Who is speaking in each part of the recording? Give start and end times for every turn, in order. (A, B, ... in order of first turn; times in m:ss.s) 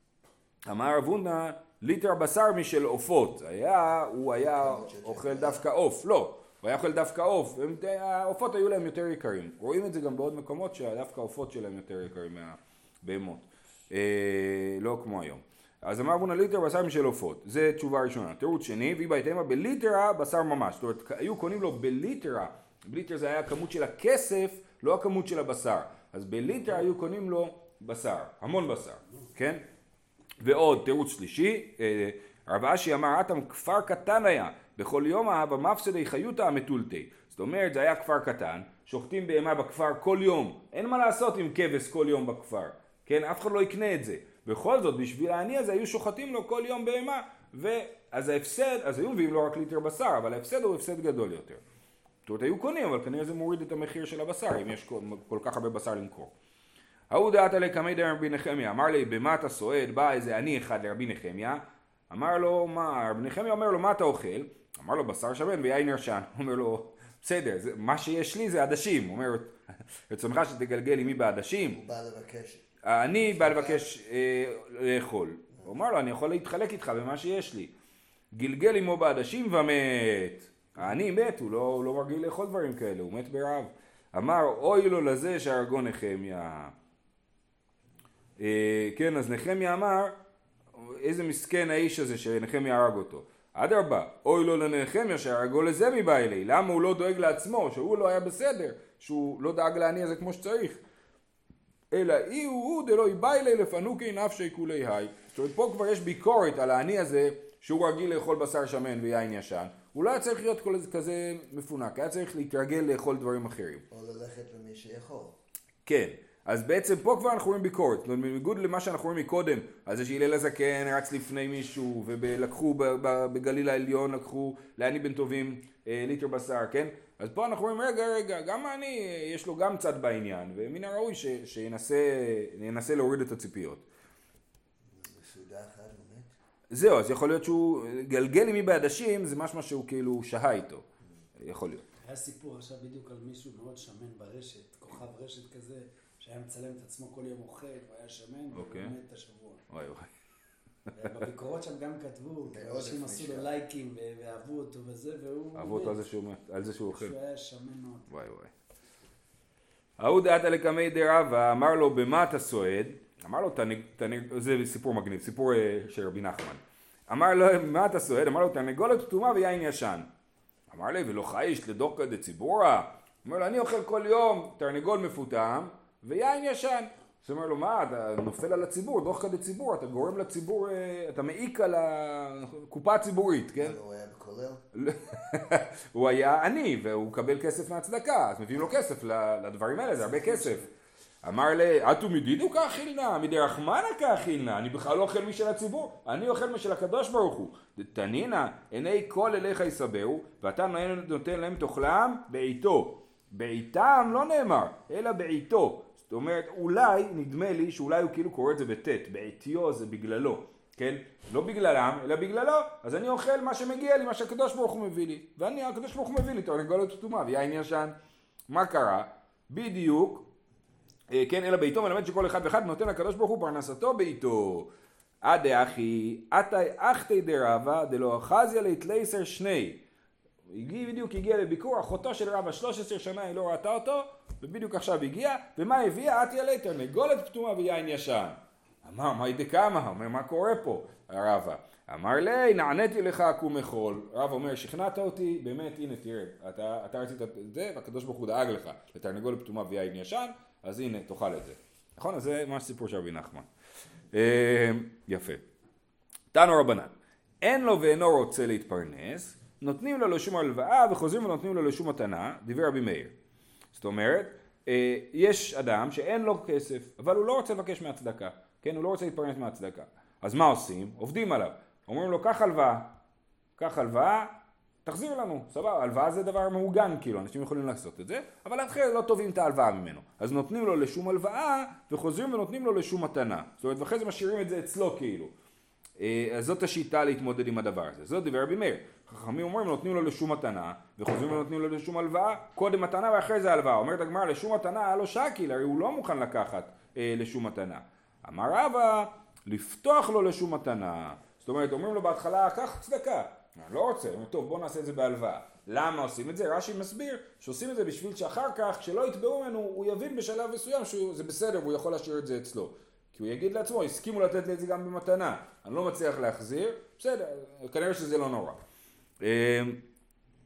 0:00.7-0:29.6 A
0:04.4-0:05.6 B
0:30.4-0:51.6 A
0:52.2-0:56.3 A
0:57.1-1:09.5 A
1:10.1-1:11.8 A
1:11.7-1:12.6 B
1:12.8-1:17.7 A
1:13.2-1:13.8 B
1:18.3-1:26.7 A
1:28.4-1:30.1 A
1:30.8-1:40.8 A
1:41.9-1:53.8 A
1:53.9-1:55.4 B
1:55.8-2:13.8 A
2:14.9-2:16.3 B
2:16.7-2:20.8 A
2:21.4-2:21.8 A
2:22.0-2:29.6 C
2:28.5-2:28.9 A
2:29.7-2:30.1 A
2:30.9-2:36.0 C
2:32.4-2:33.5 B
2:35.5-2:37.1 A
2:36.8-2:38.1 C
2:38.1-2:38.5 A
2:40.0-2:50.1 A
2:50.7-3:03.8 A
3:03.5-3:04.6 B
3:04.7-3:10.7 A
3:11.2-3:37.9 A
3:38.5-3:40.3 A
3:41.1-3:44.7 A
3:45.2-3:49.8 A
3:50.5-4:13.5 A
4:14.1-4:15.4 A
4:16.3-4:23.1 A
4:23.7-4:32.9 A
4:33.6-4:34.3 A
4:34.8-4:45.3 A
4:46.0-5:18.6 A
5:19.2-5:19.8 A